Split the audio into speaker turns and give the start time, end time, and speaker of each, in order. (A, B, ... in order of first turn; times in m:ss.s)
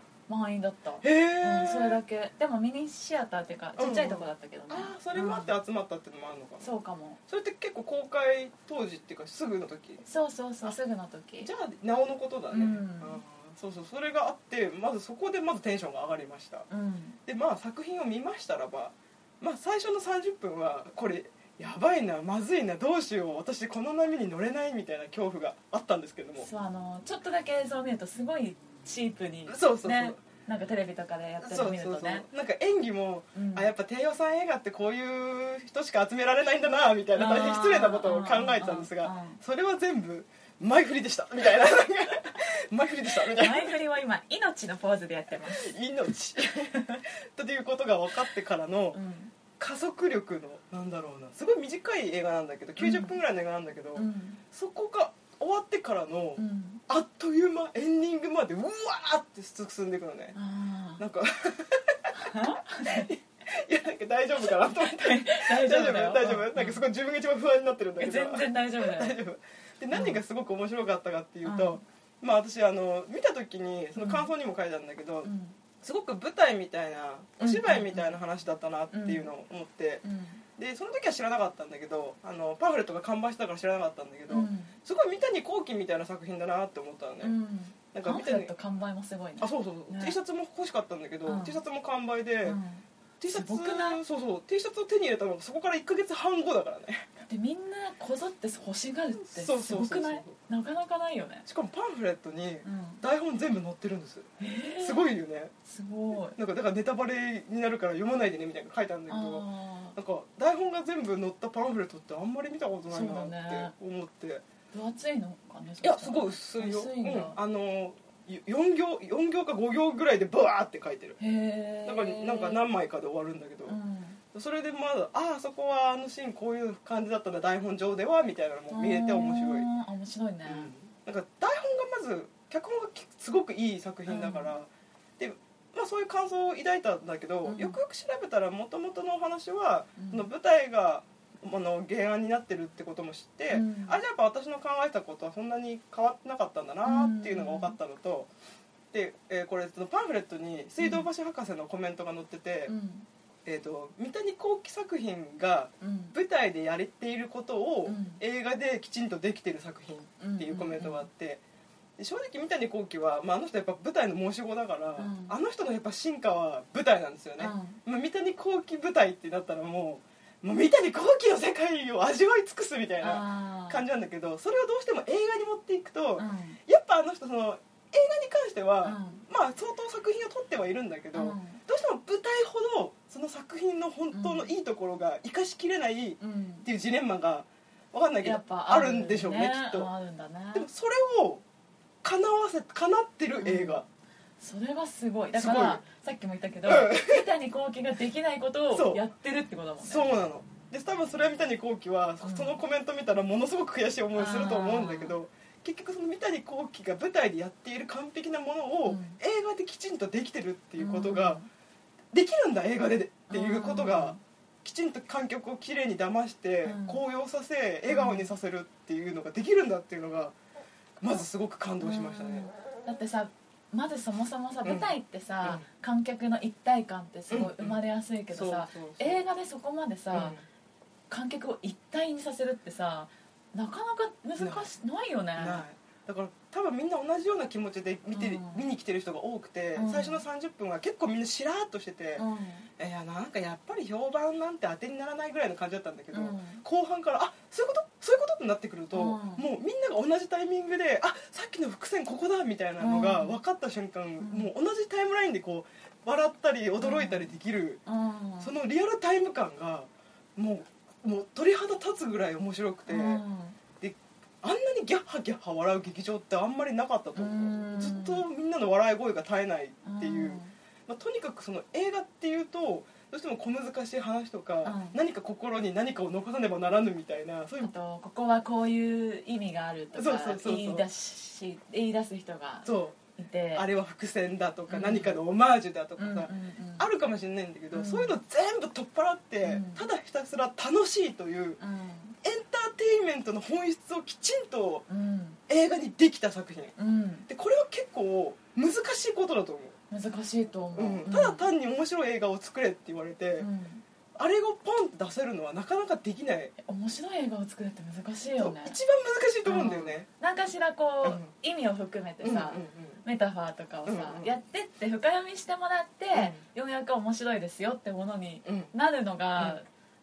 0:00.3-0:05.5 A
0:01.0-0:02.0 B
0:03.8-0:06.7 B
0:06.6-0:07.2 A
0:07.3-0:10.0 B
0:10.1-0:11.5 A
0:11.4-0:16.7 B
0:12.5-0:13.2 A
0:16.7-0:17.2 A
0:17.3-0:26.5 B
0:26.4-0:32.3 A
0:29.5-0:30.2 B
0:31.4-0:43.7 B
0:33.4-0:33.7 A
0:37.2-0:39.4 A
0:43.2-0:45.7 A
0:45.5-0:49.0 B
0:48.9-0:49.3 A
0:49.6-1:00.4 B
0:52.8-0:53.2 A
0:54.0-0:54.4 A
0:56.4-0:56.8 A
1:00.4-1:01.0 A
1:01.0-1:20.0 B
1:02.2-1:03.1 A
1:04.8-1:06.8 A
1:08.0-1:09.2 A
1:09.9-1:10.2 A
1:11.4-1:11.8 A
1:14.0-1:14.3 A
1:15.2-1:15.6 A
1:17.4-1:18.1 A
1:18.9-1:19.3 A
1:20.0-1:20.4 A
1:20.6-1:27.4 B
1:24.3-1:24.7 A
1:27.2-1:30.2 A
1:27.9-1:28.5 B
1:29.4-1:32.6 B
1:31.3-1:31.6 A
1:32.4-1:34.0 A
1:33.2-1:37.1 B
1:37.3-1:41.5 A
1:39.2-1:40.3 B
1:41.5-1:44.3 B
1:42.6-1:43.0 A
1:44.4-1:45.1 A
1:44.8-1:45.5 B
1:45.6-1:46.4 A
1:46.4-1:54.4 B
1:49.1-1:50.0 A
1:52.9-1:53.7 A
1:54.7-1:57.4 A
1:55.8-2:01.2 B
2:01.2-2:02.6 A
2:01.8-2:03.8 B
2:03.7-2:04.2 A
2:04.3-2:09.7 B
2:08.7-2:10.7 A
2:10.5-2:28.3 B
2:14.1-2:14.5 A
2:17.4-2:17.8 A
2:20.0-2:20.3 A
2:23.5-2:24.0 A
2:26.8-2:27.8 A
2:28.9-2:32.7 B
2:30.8-2:31.1 A
2:32.7-2:33.1 A
2:33.4-2:41.4 B
2:35.8-2:36.2 A
2:37.9-2:38.2 A
2:40.2-2:41.1 A
2:42.0-3:09.9 B
2:45.0-2:45.4 A
2:47.4-2:47.8 A
2:53.0-2:53.8 A
2:56.2-2:56.6 A
2:58.8-2:59.2 A
3:01.2-3:01.6 A
3:04.1-3:04.5 A
3:06.2-3:06.7 A
3:08.2-3:10.7 A
3:10.5-3:11.4 B
3:12.0-3:13.8 B
3:13.4-3:13.8 A
3:14.4-3:20.1 A
3:15.3-3:15.8 B
3:16.6-3:17.3 B
3:18.7-3:19.0 B
3:19.8-3:31.4 B
3:22.2-3:22.6 A
3:24.2-3:25.2 A
3:28.9-3:29.2 A
3:30.8-3:31.5 A
3:32.1-3:40.4 B
3:33.3-3:34.2 A
3:36.6-3:37.0 A
3:37.9-3:38.3 A
3:41.0-3:42.5 B
3:41.8-3:50.4 A
3:47.3-3:47.8 B
3:48.3-3:49.2 B
3:50.1-3:50.4 B
3:51.1-3:55.6 A
3:54.4-3:54.7 B
3:55.4-4:02.2 B
3:58.1-3:58.6 A
3:59.8-4:00.2 A
4:02.2-4:02.7 A
4:02.8-4:17.8 B
4:06.1-4:06.6 A
4:08.9-4:09.4 A
4:12.8-4:13.4 A
4:14.2-4:14.5 A
4:16.8-4:17.3 A
4:17.9-4:18.5 A
4:18.4-4:23.2 B
4:22.9-4:23.6 A
4:23.8-4:37.7 B
4:27.2-4:28.2 A
4:29.8-4:30.5 A
4:34.6-4:35.0 A
4:37.6-4:43.7 A
4:39.9-4:40.9 B
4:42.6-4:43.0 B
4:43.6-4:51.6 B
4:44.7-4:45.2 A
4:46.0-4:46.9 A
4:47.7-4:48.2 A
4:49.4-4:49.8 A
4:51.6-4:52.2 A
4:52.2-4:54.8 B
4:54.9-4:55.4 A
4:55.5-4:56.8 B
4:56.8-4:57.3 A
4:57.3-4:59.8 B
4:59.9-5:01.5 A
5:00.8-5:03.5 B
5:03.4-5:03.8 A
5:04.2-5:06.5 B
5:06.6-5:08.8 A
5:08.4-5:10.1 B
5:09.5-5:19.7 A
5:11.0-5:11.3 B
5:12.2-5:13.0 B
5:13.9-5:14.3 B
5:16.2-5:16.4 B
5:18.4-5:18.7 B